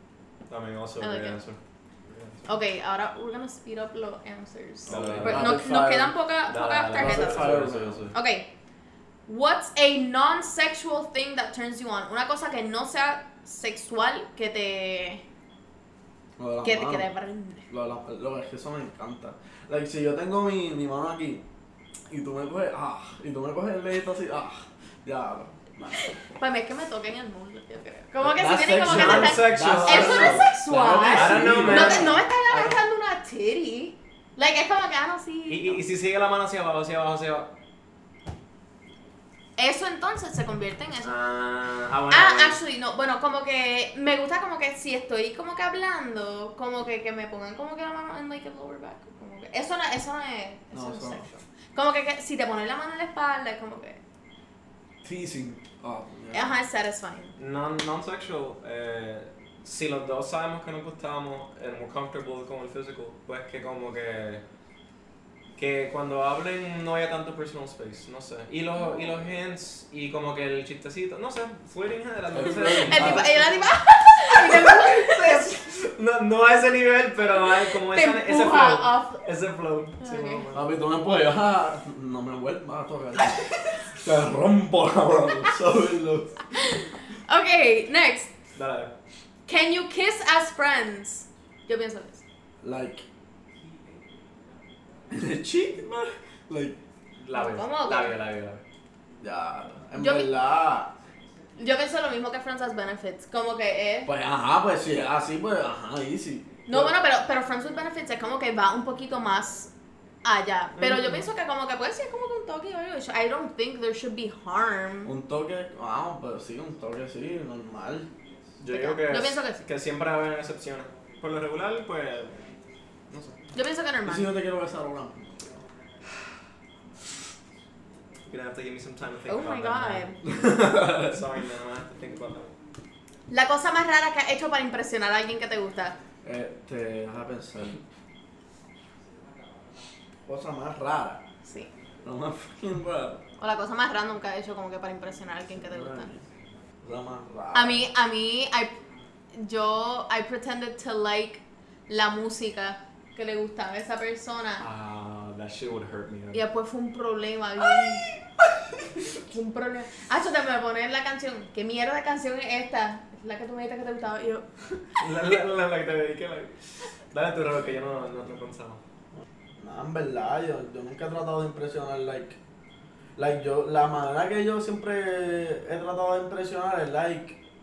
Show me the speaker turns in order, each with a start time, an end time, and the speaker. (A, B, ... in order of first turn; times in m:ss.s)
0:00.5-0:02.5 A
0:01.0-0:01.4 B
0:02.4-0:07.6 B
0:04.9-0:06.2 C
0:04.9-0:05.7 A
0:06.5-0:08.2 A
0:06.9-0:08.0 C
0:08.1-0:08.5 B
0:09.3-0:15.2 B
0:16.4-0:17.1 C
0:16.6-0:17.7 B
0:17.7-0:21.4 C
0:22.1-0:26.1 C
0:25.9-0:35.8 B
0:28.2-0:32.2 C
0:28.8-0:32.8 A
0:35.5-0:37.5 A
0:39.6-0:41.2 B
0:41.0-0:42.6 A
0:42.1-0:54.0 B
0:50.7-0:51.2 C
0:55.0-0:56.5 C
0:56.3-0:57.3 B
0:57.4-1:04.4 A
1:05.6-1:13.5 A
1:08.8-1:09.1 B
1:12.3-1:13.6 C
1:12.8-1:15.5 B
1:14.2-1:20.7 A
1:17.2-1:19.2 B
1:20.0-1:20.4 B
1:20.5-1:26.4 C
1:26.5-1:28.3 B
1:28.5-1:28.9 A
1:29.5-1:32.2 B
1:32.6-1:33.0 C
1:35.1-1:36.8 C
1:37.2-1:38.6 A
1:37.3-1:38.1 B
1:39.2-1:40.9 C
1:40.0-1:40.4 B
1:41.6-1:44.1 B
1:44.0-1:47.0 C
1:46.7-1:49.7 B
1:50.2-1:55.1 B
1:50.8-1:51.2 A
1:55.0-1:58.1 C
1:58.6-2:02.5 A
1:58.7-1:59.7 B
2:03.5-2:04.3 B
2:04.0-2:05.4 C
2:08.3-2:12.5 A
2:09.2-2:10.2 B
2:10.2-2:11.2 C
2:13.3-2:16.0 B
2:16.2-2:17.8 C
2:20.2-2:21.2 C
2:21.4-2:21.7 B
2:22.0-2:23.2 C
2:23.4-2:26.1 B
2:25.5-2:26.2 C
2:26.8-2:27.8 C
2:27.5-2:28.7 B
2:29.3-2:34.6 B
2:34.6-2:36.4 A
2:36.3-2:38.1 B
2:37.8-2:38.2 A
2:39.2-2:44.4 B
2:45.0-2:46.6 A
2:47.1-2:48.8 A
2:49.6-2:52.4 C
2:53.2-2:57.4 C